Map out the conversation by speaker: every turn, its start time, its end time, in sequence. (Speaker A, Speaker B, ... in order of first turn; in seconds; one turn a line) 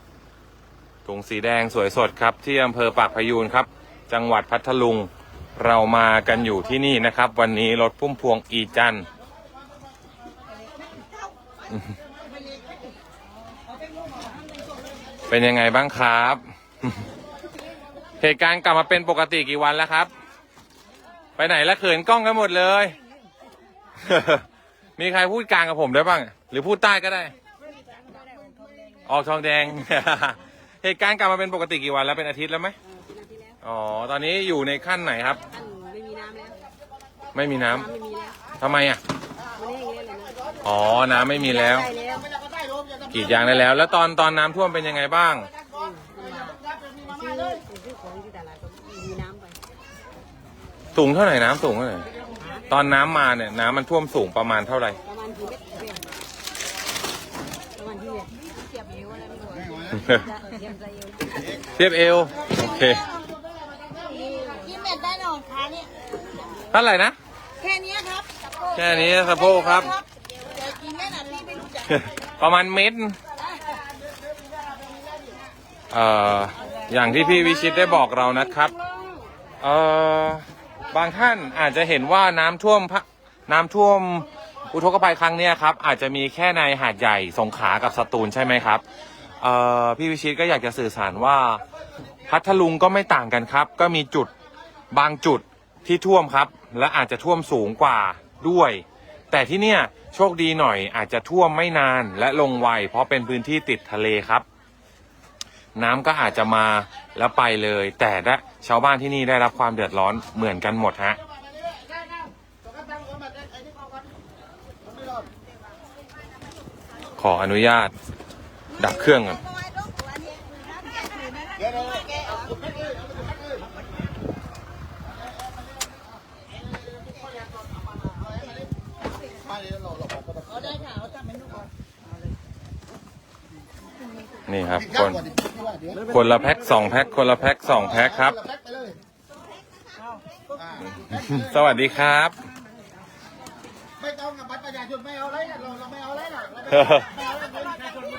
Speaker A: 1.1-9.1
Speaker A: 15.3-17.0
Speaker A: 18.2-20.1
Speaker A: 21.4-23.0
Speaker A: 24.0-24.4
Speaker A: 25.0-27.3
Speaker A: 29.1-32.8
Speaker B: 33.1-33.4
Speaker A: 33.6-35.4
Speaker B: 35.5-36.6
Speaker A: 37.3-37.9
Speaker B: 37.9-38.4
Speaker A: 38.6-39.0
Speaker B: 39.7-40.3
Speaker A: 40.6-41.9
Speaker C: 41.9-43.7
Speaker A: 43.1-45.5
Speaker C: 45.8-47.6
Speaker B: 46.0-46.6
Speaker B: 47.3-49.5
Speaker A: 51.0-52.0
Speaker A: 52.7-55.0
Speaker B: 55.2-56.0
Speaker B: 57.8-59.4
Speaker C: 59.4-60.2
Speaker A: 60.0-60.2
Speaker A: 61.7-63.1
Speaker C: 64.2-64.4
Speaker B: 64.2-66.0
Speaker A: 66.7-67.2
Speaker B: 67.6-68.3
Speaker A: 68.7-70.0
Speaker B: 70.0-71.8
Speaker A: 71.8-73.2
Speaker A: 75.9-78.8
Speaker A: 79.6-88.8
Speaker A: 89.4-91.6
Speaker A: 92.3-94.3
Speaker A: 94.9-104.5
Speaker A: 105.8-111.2
Speaker C: 111.6-114.1
Speaker A: 117.2-117.9
Speaker A: 118.8-119.4
Speaker B: 120.7-121.5
Speaker C: 121.6-123.6
Speaker C: 128.0-128.6
Speaker C: 129.3-131.3
Speaker A: 134.5-135.2
Speaker C: 134.7-136.1
Speaker A: 136.1-138.4
Speaker C: 137.7-139.0
Speaker C: 140.5-141.9
Speaker A: 141.1-142.3
Speaker C: 144.0-147.8
Speaker A: 146.7-147.1